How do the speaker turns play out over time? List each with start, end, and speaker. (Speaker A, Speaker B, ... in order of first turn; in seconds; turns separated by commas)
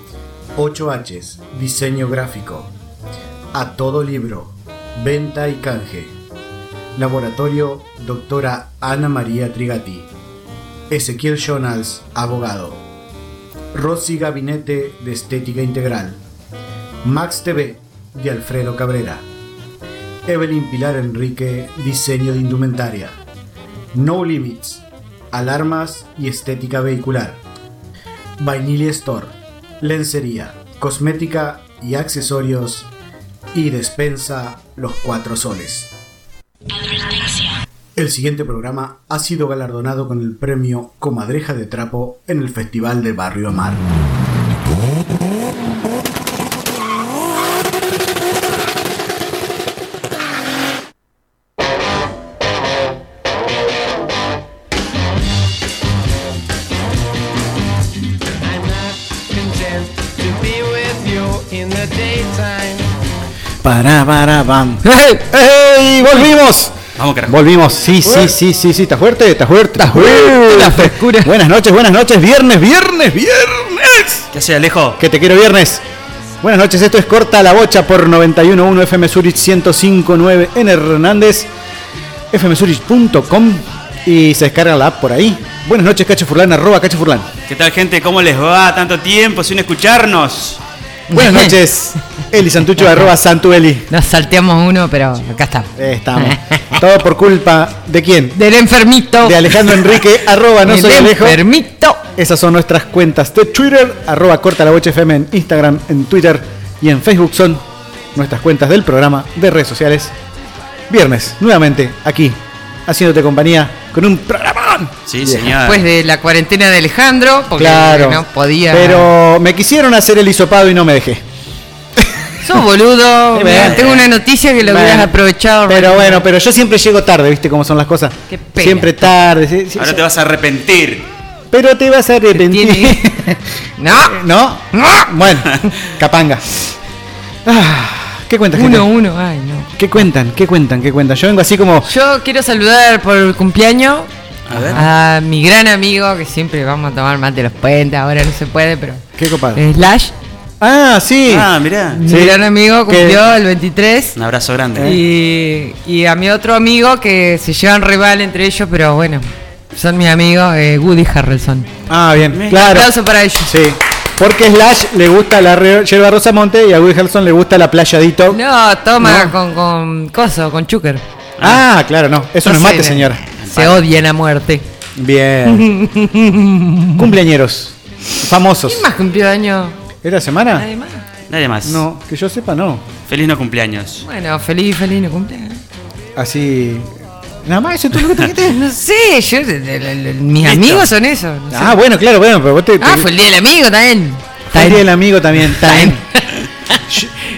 Speaker A: 0.6-2.7, Speaker A: 3.5-6.2, Speaker A: 7.0-10.1, Speaker A: 10.9-12.8, Speaker A: 13.7-16.2, Speaker A: 17.0-19.2, Speaker A: 20.3-23.2, Speaker A: 23.9-27.4, Speaker A: 28.4-32.9, Speaker A: 33.5-35.9, Speaker A: 38.0-43.8, Speaker B: 58.4-62.9, Speaker C: 63.6-66.8, Speaker D: 64.8-65.2, Speaker E: 67.0-67.4, Speaker C: 67.3-74.2, Speaker D: 69.8-71.3, Speaker E: 74.3-75.0, Speaker C: 75.0-75.8, Speaker C: 76.4-81.5, Speaker C: 82.3-87.3, Speaker E: 87.5-90.6, Speaker D: 91.1-91.6, Speaker C: 91.1-93.9, Speaker D: 93.9-96.8, Speaker C: 95.8-98.3, Speaker D: 98.3-99.8, Speaker C: 99.2-101.4, Speaker D: 100.6-102.0, Speaker C: 102.2-110.1, Speaker C: 110.9-115.6, Speaker E: 115.1-115.8, Speaker D: 115.6-119.1, Speaker C: 117.6-121.2, Speaker D: 122.4-126.3, Speaker C: 123.3-123.9, Speaker E: 123.5-124.0, Speaker C: 124.6-125.2, Speaker C: 125.7-130.1, Speaker D: 128.3-129.1, Speaker E: 129.8-131.1, Speaker C: 131.5-133.4, Speaker D: 132.3-133.1, Speaker D: 133.8-134.2, Speaker C: 133.9-136.4, Speaker D: 134.7-135.1, Speaker C: 137.5-138.9, Speaker D: 138.5-139.8, Speaker C: 139.8-141.9, Speaker D: 141.8-144.1, Speaker E: 144.5-144.8, Speaker C: 144.5-144.8, Speaker D: 144.7-149.0, Speaker C: 149.2-149.6, Speaker D: 149.6-150.1, Speaker C: 150.6-151.5, Speaker E: 151.3-152.0, Speaker D: 151.9-154.2, Speaker C: 152.1-153.2, Speaker E: 154.2-155.0, Speaker D: 154.8-161.7, Speaker C: 161.9-162.9, Speaker E: 162.3-162.7, Speaker D: 162.5-163.6, Speaker C: 163.5-168.4, Speaker D: 168.3-171.0, Speaker C: 169.0-169.3, Speaker C: 171.4-173.2, Speaker D: 172.4-174.7, Speaker E: 173.4-173.8, Speaker C: 175.0-175.7, Speaker D: 175.5-177.1, Speaker C: 177.0-178.9, Speaker D: 178.6-179.8, Speaker C: 180.0-180.7, Speaker D: 180.5-181.1, Speaker E: 181.3-181.8, Speaker C: 181.6-182.8, Speaker E: 183.1-184.0, Speaker D: 184.0-185.6, Speaker C: 186.2-186.9, Speaker C: 187.4-188.6, Speaker D: 188.5-191.8, Speaker E: 190.4-190.9, Speaker C: 191.5-193.1, Speaker D: 192.8-194.9, Speaker C: 194.5-196.0, Speaker D: 195.4-196.8